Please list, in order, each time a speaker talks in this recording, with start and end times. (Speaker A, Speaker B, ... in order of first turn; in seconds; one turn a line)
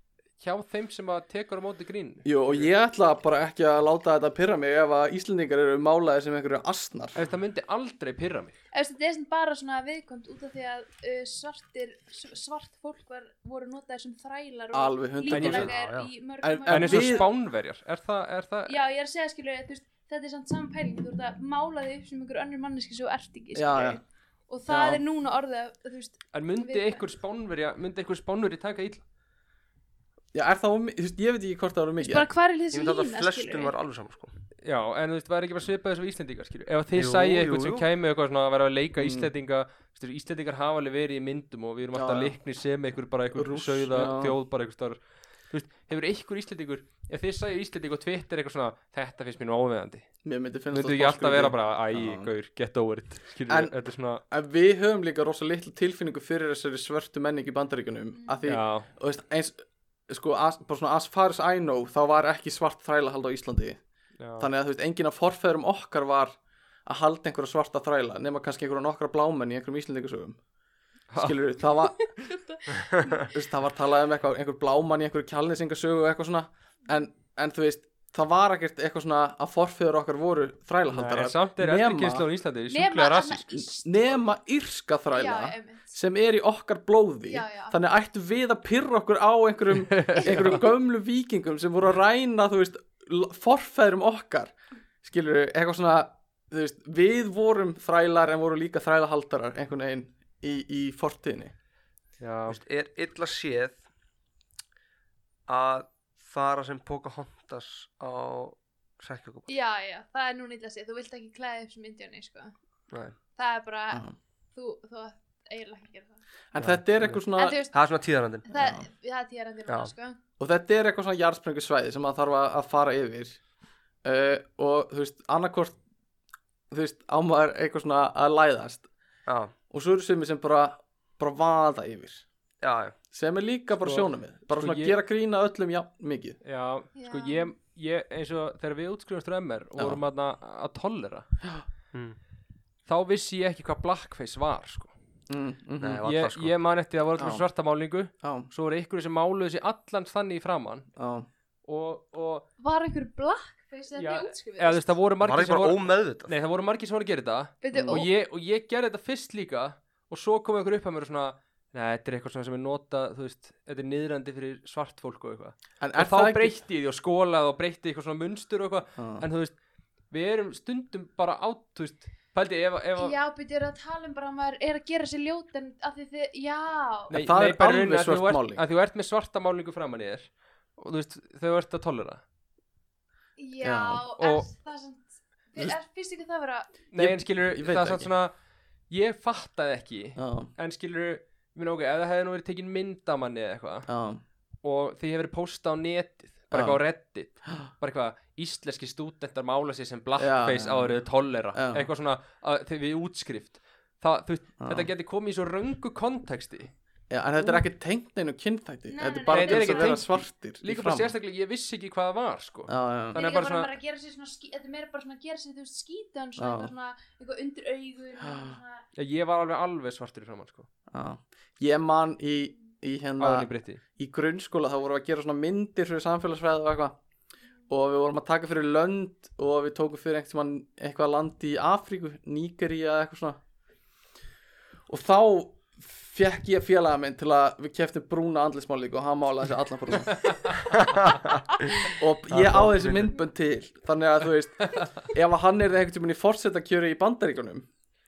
Speaker A: 0.4-2.7
Speaker B: 2.2-7.2
Speaker A: 7.1-8.5
Speaker C: 8.7-17.3
Speaker B: 14.7-15.7
Speaker A: 15.3-15.7
Speaker D: 15.6-16.1
Speaker B: 16.4-17.3
Speaker A: 16.7-18.7
Speaker C: 18.7-27.0
Speaker B: 23.5-24.0
Speaker B: 24.7-25.0
Speaker A: 26.3-29.0
Speaker B: 30.3-32.3
Speaker C: 32.0-33.7
Speaker D: 32.7-34.3
Speaker A: 34.6-45.0
Speaker D: 36.9-37.9
Speaker B: 39.0-39.3
Speaker B: 41.9-42.4
Speaker B: 43.3-44.4
Speaker A: 45.5-50.0
Speaker B: 50.2-52.3
Speaker A: 50.7-54.2
Speaker B: 53.5-53.7
Speaker B: 54.3-63.8
Speaker A: 58.5-58.9
Speaker A: 64.2-64.5
Speaker B: 64.4-70.4
Speaker A: 71.1-71.4
Speaker B: 71.2-72.1
Speaker C: 72.2-73.3
Speaker B: 73.2-82.3
Speaker A: 80.9-83.5
Speaker C: 82.7-84.2
Speaker B: 83.6-101.5
Speaker C: 85.1-85.9
Speaker C: 87.3-87.7
Speaker A: 89.8-90.6
Speaker A: 102.2-102.6
Speaker D: 102.5-103.8
Speaker D: 105.5-109.5
Speaker C: 109.5-112.5
Speaker C: 113.3-116.2
Speaker B: 116.5-117.6
Speaker D: 116.6-118.5
Speaker C: 117.3-117.7
Speaker C: 118.5-120.2
Speaker B: 118.5-118.9
Speaker B: 120.4-123.4
Speaker B: 124.0-125.8
Speaker B: 126.7-128.9
Speaker D: 129.3-129.5
Speaker B: 129.7-132.2
Speaker D: 132.6-132.9
Speaker B: 133.1-136.4
Speaker A: 133.8-135.0
Speaker A: 136.4-141.3
Speaker C: 136.9-137.5
Speaker A: 142.8-144.9
Speaker B: 145.3-146.0
Speaker D: 145.8-146.5
Speaker A: 146.0-150.9
Speaker B: 147.2-147.4
Speaker B: 148.2-148.5
Speaker B: 150.9-151.3
Speaker A: 151.6-152.4
Speaker C: 152.6-154.9
Speaker A: 153.9-169.6
Speaker D: 155.2-156.3
Speaker C: 157.6-158.1
Speaker B: 157.7-158.1
Speaker B: 165.8-166.6
Speaker B: 169.0-169.2
Speaker A: 170.1-173.1
Speaker C: 173.0-177.1
Speaker B: 177.1-178.6
Speaker A: 177.1-182.2
Speaker C: 183.4-186.7
Speaker B: 183.6-184.0
Speaker A: 184.2-184.5
Speaker A: 186.9-188.3
Speaker B: 186.9-188.1
Speaker A: 188.9-193.9
Speaker B: 190.2-190.5
Speaker B: 193.9-194.2
Speaker A: 194.6-206.7
Speaker B: 196.5-196.8
Speaker B: 200.2-201.0
Speaker B: 201.5-201.9
Speaker B: 204.6-204.9
Speaker B: 207.1-211.1
Speaker C: 208.9-210.0
Speaker A: 209.3-213.7
Speaker B: 212.7-213.2
Speaker C: 213.1-218.8
Speaker B: 216.4-216.7
Speaker B: 218.2-218.6
Speaker A: 218.9-220.7
Speaker B: 220.9-226.9
Speaker A: 223.2-223.8
Speaker B: 227.7-233.4
Speaker B: 234.9-240.4
Speaker A: 240.2-240.5
Speaker D: 240.7-243.1
Speaker B: 241.9-247.7